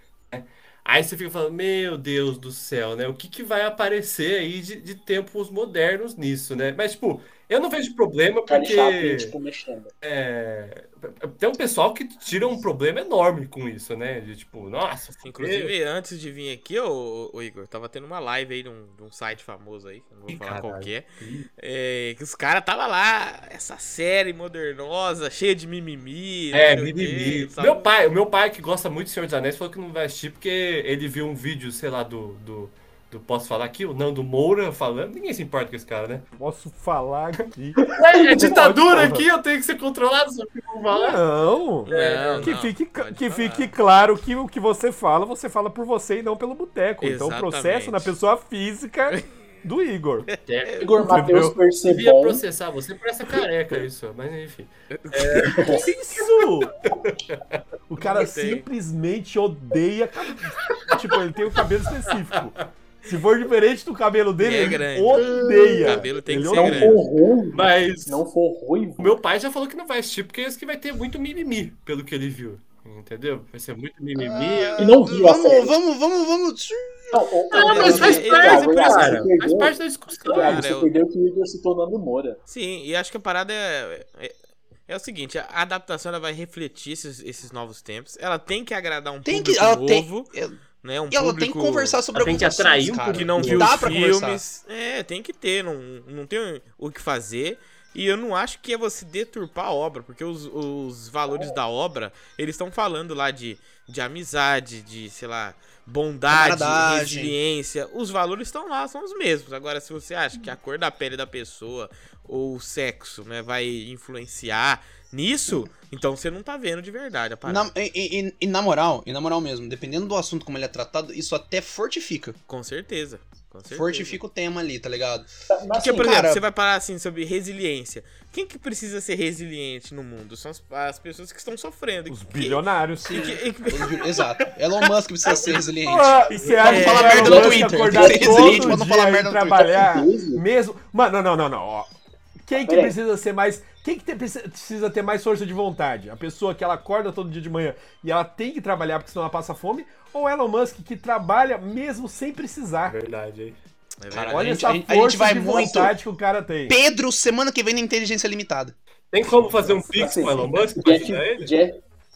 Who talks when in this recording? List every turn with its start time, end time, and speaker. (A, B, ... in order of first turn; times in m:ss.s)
0:00.3-0:09.3 A
0:08.5-0:09.9 B
0:10.0-0:15.7 A
0:15.2-0:21.1 C
0:20.3-0:21.5 A
0:21.6-0:27.9 C
0:26.5-0:36.2 A
0:36.4-0:39.3 D
0:37.9-0:41.2 A
0:40.9-0:50.3 D
0:41.9-0:43.7 C
0:41.9-0:42.6 A
0:47.0-0:48.1 C
0:50.3-0:50.9 C
0:50.5-0:50.8 A
0:50.8-0:52.4 B
0:51.0-0:51.6 D
0:51.9-0:55.8 A
0:54.9-0:55.8 C
0:55.4-0:55.8 B
0:55.7-0:56.7 D
0:56.8-0:57.6 A
0:57.9-1:07.0 D
0:58.0-0:58.6 C
1:02.1-1:02.4 A
1:04.4-1:07.0 C
1:05.1-1:06.0 A
1:05.4-1:05.8 B
1:06.5-1:09.2 B
1:07.5-1:08.2 A
1:09.0-1:14.9 A
1:14.2-1:17.2 E
1:14.8-1:15.8 B
1:17.1-1:22.4 B
1:17.5-1:19.3 C
1:17.5-1:20.7 A
1:17.8-1:18.1 E
1:20.3-1:20.9 C
1:22.5-1:24.3 C
1:24.9-1:32.0 C
1:29.2-1:30.6 E
1:31.1-1:34.4 E
1:32.1-1:33.8 A
1:33.1-1:57.7 C
1:46.3-1:47.4 E
1:57.4-2:02.4 E
2:02.5-2:04.2 C
2:03.7-2:05.3 E
2:05.5-2:06.2 B
2:05.8-2:14.4 C
2:05.9-2:06.4 E
2:12.1-2:13.3 D
2:13.0-2:19.7 E
2:15.8-2:21.9 D
2:16.3-2:17.1 A
2:16.6-2:17.4 C
2:16.9-2:18.8 B
2:19.5-2:20.4 B
2:22.4-2:33.0 D
2:22.6-2:22.9 B
2:32.9-2:33.6 A
2:34.0-2:34.6 C
2:34.1-2:35.9 E
2:34.3-2:36.8 D
2:36.7-2:38.8 E
2:39.1-2:41.5 A
2:39.9-2:41.8 B